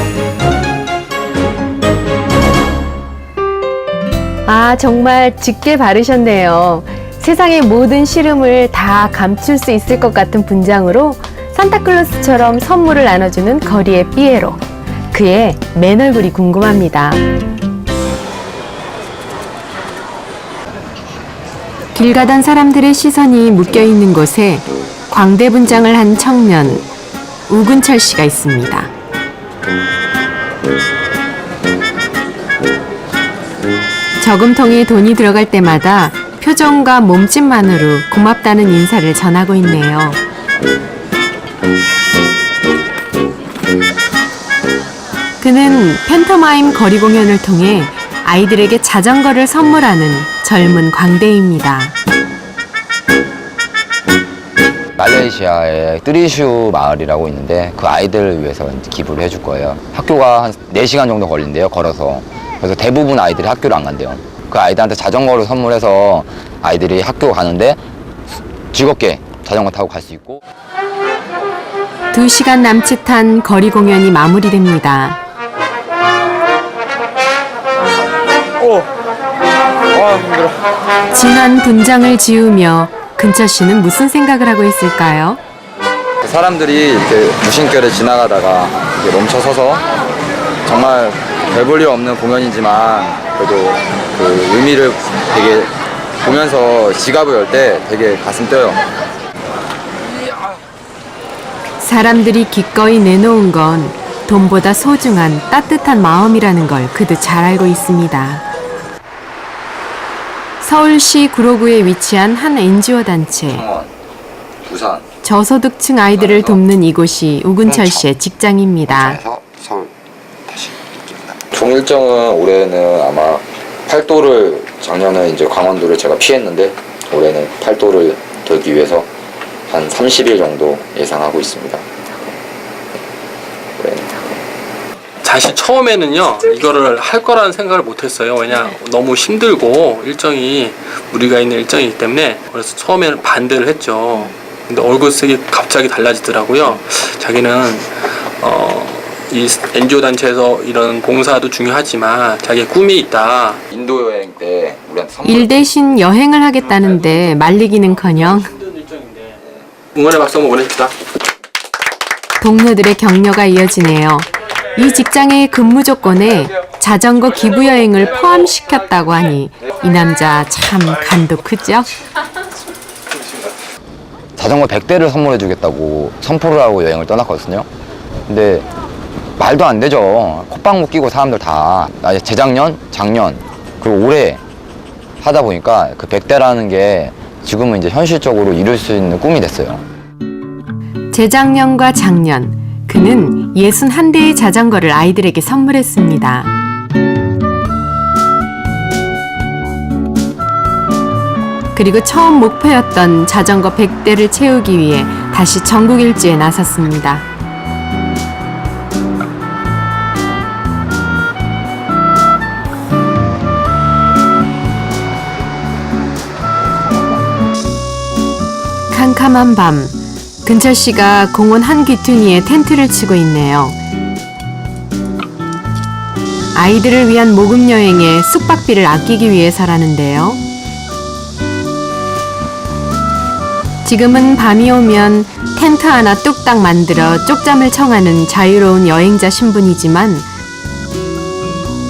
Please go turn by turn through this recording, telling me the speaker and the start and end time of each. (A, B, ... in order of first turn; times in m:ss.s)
0:04.4-0:17.2 A
0:21.9-0:26.8 A
0:27.5-0:28.9 A
0:34.2-0:40.2 A
0:45.4-0:51.9 A
0:55.0-1:07.8 B
1:08.7-1:10.4 B
1:12.1-1:15.2 A
1:18.6-1:18.9 B
1:19.9-1:20.6 B
1:21.1-1:25.4 A
1:26.2-1:29.8 B
1:30.6-1:38.8 B
1:41.8-1:48.4 A
1:50.6-1:53.6 A
1:53.5-1:53.9 B
1:54.6-1:55.0 B
1:55.2-1:59.2 A
1:56.2-1:56.6 B
1:57.6-1:58.1 B
1:58.9-1:59.9 B
2:00.5-2:09.1 B
2:09.7-2:11.8 B
2:13.8-2:14.1 B
2:15.2-2:33.6 C
2:33.7-2:35.6 B
2:35.2-2:38.5 A
2:38.4-2:39.4 C
2:39.9-2:41.0 C
2:42.4-2:51.9 A
2:54.4-2:57.7 B
2:58.3-2:58.7 B
2:59.4-3:04.4 B
3:05.2-3:09.8 B
3:11.1-3:16.5 A
3:21.7-3:27.2 A
3:38.9-3:43.8 A
3:46.5-3:50.4 A
3:53.8-4:00.3 A